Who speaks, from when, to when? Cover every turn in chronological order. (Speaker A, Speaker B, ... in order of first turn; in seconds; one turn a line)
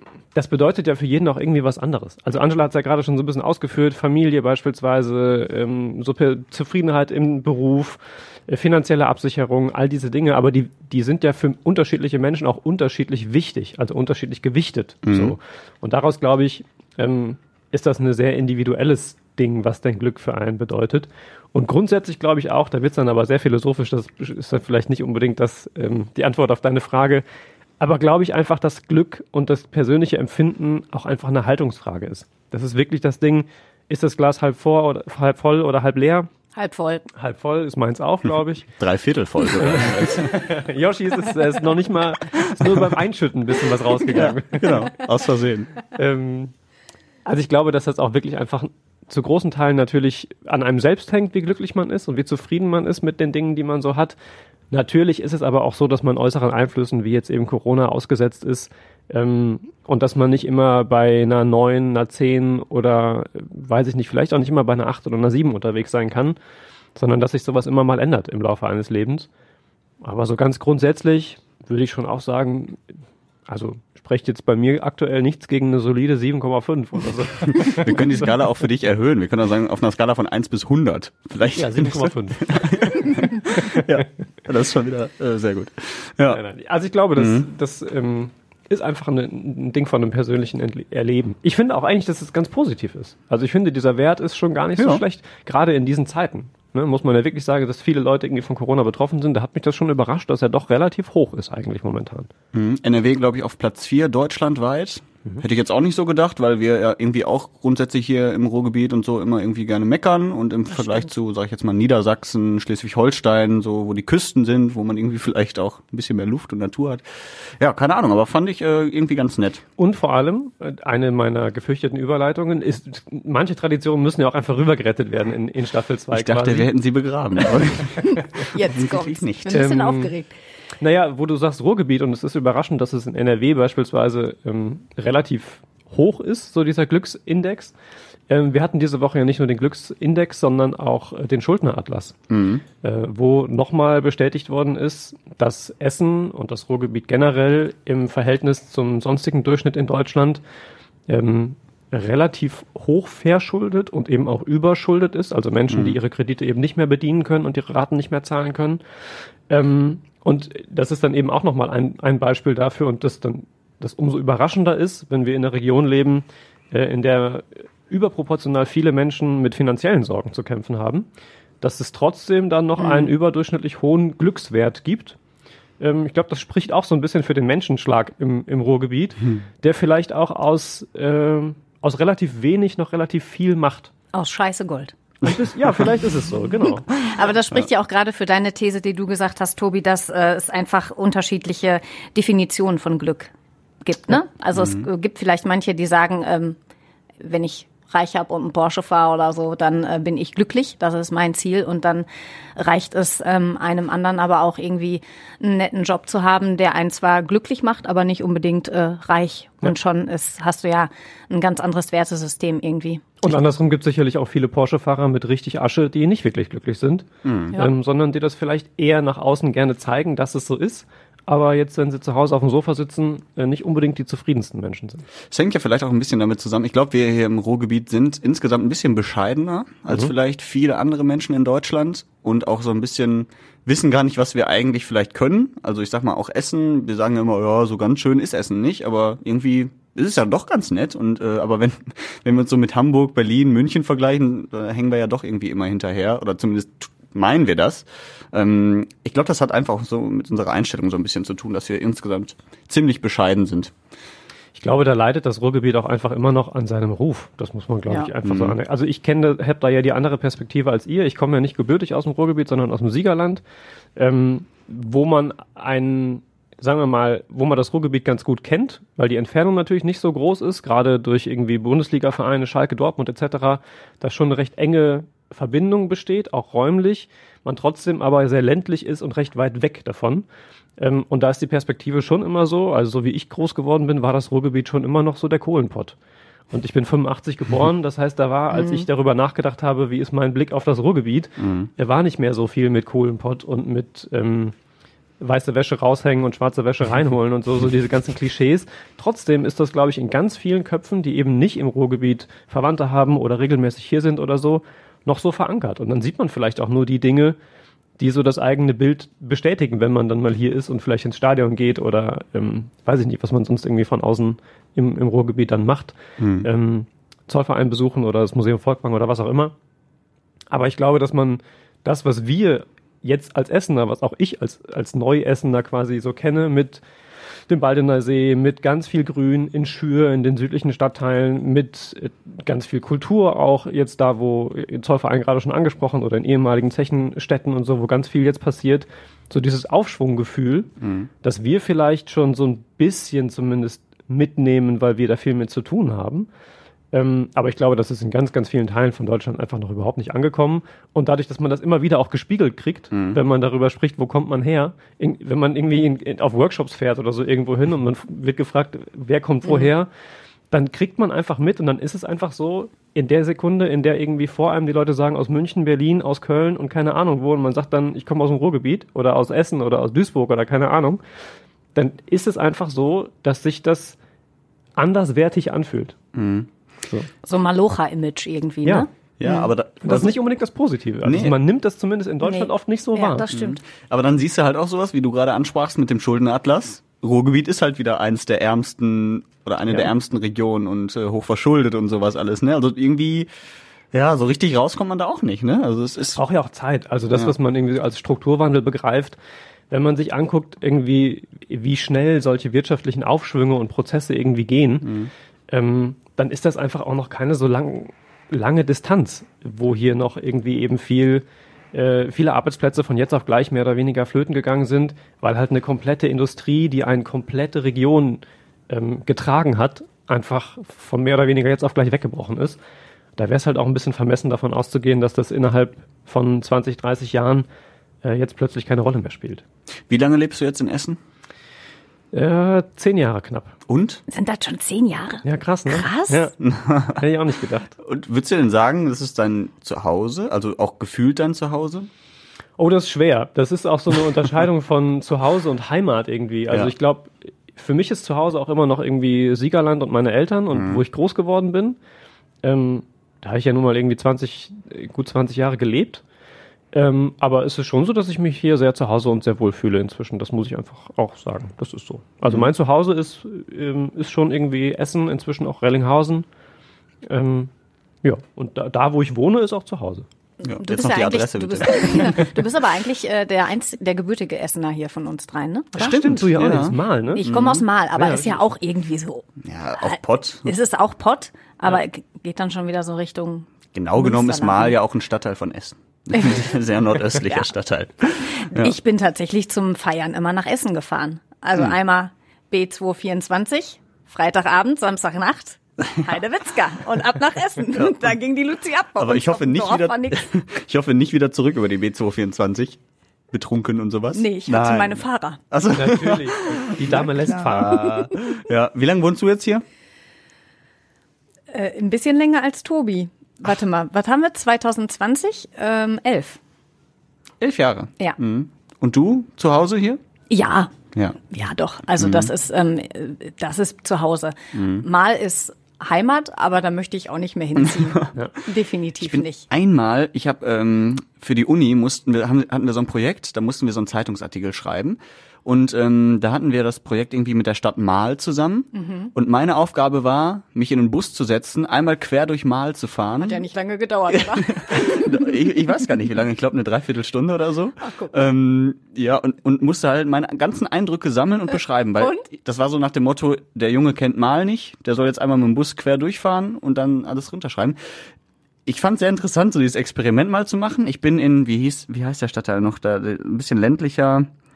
Speaker A: 0.3-27.2
Speaker B: 15.0-15.3
Speaker A: 27.8-36.3
Speaker C: 36.5-37.1
Speaker A: 37.2-38.7
Speaker B: 38.8-40.3
Speaker A: 39.6-44.9
Speaker B: 44.1-45.7
Speaker A: 46.0-46.5
Speaker A: 47.2-54.2
Speaker A: 54.7-66.4
Speaker A: 67.0-69.3
Speaker A: 70.0-72.8
Speaker A: 73.5-78.3
Speaker B: 77.5-86.4
Speaker A: 81.5-83.8
Speaker A: 86.3-102.3
Speaker B: 87.2-87.5
Speaker B: 94.8-95.0
Speaker B: 102.5-117.0
Speaker B: 117.6-119.6
Speaker A: 119.8-126.7
Speaker B: 126.1-129.6
Speaker C: 128.5-130.3
Speaker A: 129.5-130.1
Speaker A: 130.8-137.7
Speaker A: 138.3-142.2
Speaker B: 142.3-142.6
Speaker A: 142.8-150.4
Speaker A: 151.1-158.8
Speaker B: 155.7-156.0
Speaker A: 159.5-171.1
Speaker A: 171.6-175.2
Speaker C: 172.8-173.1
Speaker A: 175.8-183.9
Speaker C: 184.1-184.9
Speaker A: 185.2-186.9
Speaker C: 187.0-196.6
Speaker B: 194.6-194.9
Speaker C: 197.2-213.0
Speaker A: 213.2-225.1
Speaker B: 217.2-217.6
Speaker B: 225.3-253.7
Speaker A: 254.6-263.4
Speaker B: 258.2-258.6
Speaker A: 264.0-280.2
Speaker A: 280.8-285.9
Speaker A: 286.5-294.5
Speaker C: 288.5-288.9
Speaker B: 291.4-291.7
Speaker A: 295.2-307.4
Speaker A: 308.0-319.5
Speaker B: 316.2-316.5
Speaker A: 320.5-326.8
Speaker A: 327.5-340.7
Speaker B: 340.8-341.1
Speaker A: 341.2-346.3
Speaker A: 346.9-359.9
Speaker B: 352.9-353.2
Speaker C: 359.4-359.7
Speaker A: 360.5-371.0
Speaker A: 371.8-374.0
Speaker A: 374.8-376.0
Speaker B: 376.1-376.5
Speaker C: 377.2-379.5
Speaker B: 379.2-380.1
Speaker A: 379.8-383.3
Speaker B: 381.0-381.4
Speaker C: 382.2-383.6
Speaker B: 383.3-393.3
Speaker B: 393.9-396.2
Speaker A: 396.2-399.2
Speaker A: 399.7-404.9
Speaker B: 404.8-405.1
Speaker A: 405.5-422.6
Speaker A: 423.2-427.5
Speaker A: 428.0-429.4
Speaker B: 429.9-431.0
Speaker A: 432.1-433.5
Speaker B: 433.7-434.0
Speaker C: 434.1-436.3
Speaker A: 435.2-436.4
Speaker B: 436.4-437.0
Speaker A: 437.0-437.7
Speaker B: 437.8-441.9
Speaker A: 442.6-451.8
Speaker B: 450.5-450.8
Speaker A: 452.4-456.0
Speaker A: 456.7-466.3
Speaker A: 467.1-467.5
Speaker A: 468.0-470.1
Speaker C: 470.4-476.0
Speaker B: 470.4-472.4
Speaker A: 475.8-477.3
Speaker B: 475.8-477.6
Speaker C: 477.1-479.3
Speaker A: 478.0-478.4
Speaker B: 479.4-480.5
Speaker C: 479.8-484.8
Speaker B: 483.7-488.7
Speaker C: 488.4-500.3
Speaker B: 499.0-502.8
Speaker B: 503.3-509.6
Speaker C: 504.1-505.4
Speaker A: 505.7-507.9
Speaker C: 507.7-508.1
Speaker C: 511.5-516.4
Speaker B: 517.4-520.0
Speaker C: 520.3-520.7
Speaker C: 521.3-529.5
Speaker B: 522.0-522.3
Speaker B: 524.5-524.9
Speaker B: 527.9-528.1
Speaker B: 529.0-543.4
Speaker C: 538.7-539.1
Speaker C: 543.2-545.3
Speaker B: 544.5-557.8
Speaker C: 547.8-548.2
Speaker C: 552.0-552.3
Speaker B: 558.7-564.3